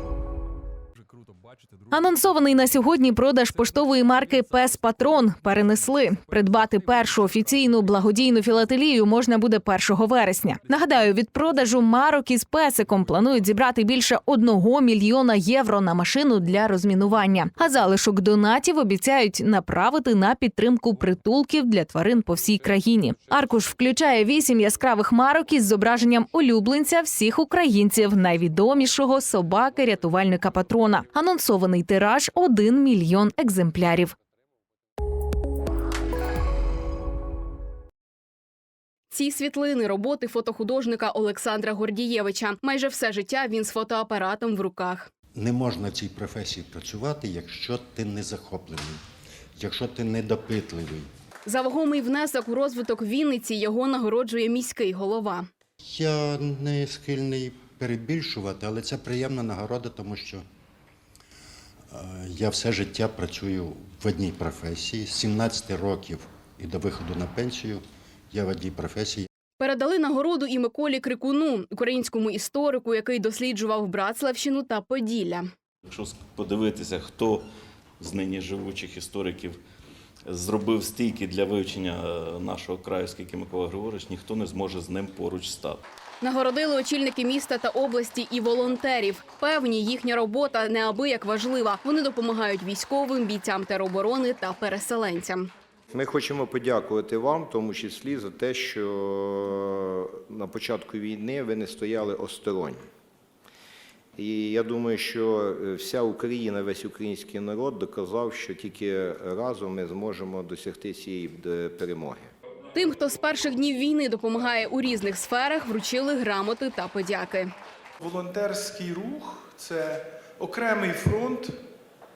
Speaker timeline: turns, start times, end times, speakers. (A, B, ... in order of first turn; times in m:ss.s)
0:01.9-0:34.1 A
0:39.1-0:45.1 B
0:45.4-0:49.0 C
0:49.6-0:51.1 C
0:51.5-0:55.5 B
0:55.8-1:00.4 C
1:01.9-1:09.2 C
1:09.6-1:15.5 B
1:15.8-1:17.4 D
1:18.0-1:19.6 D
1:20.3-1:25.8 D
1:26.2-1:35.5 B
1:35.9-1:42.8 E
1:44.2-1:52.3 E
1:52.7-1:57.5 B
1:58.0-2:01.6 F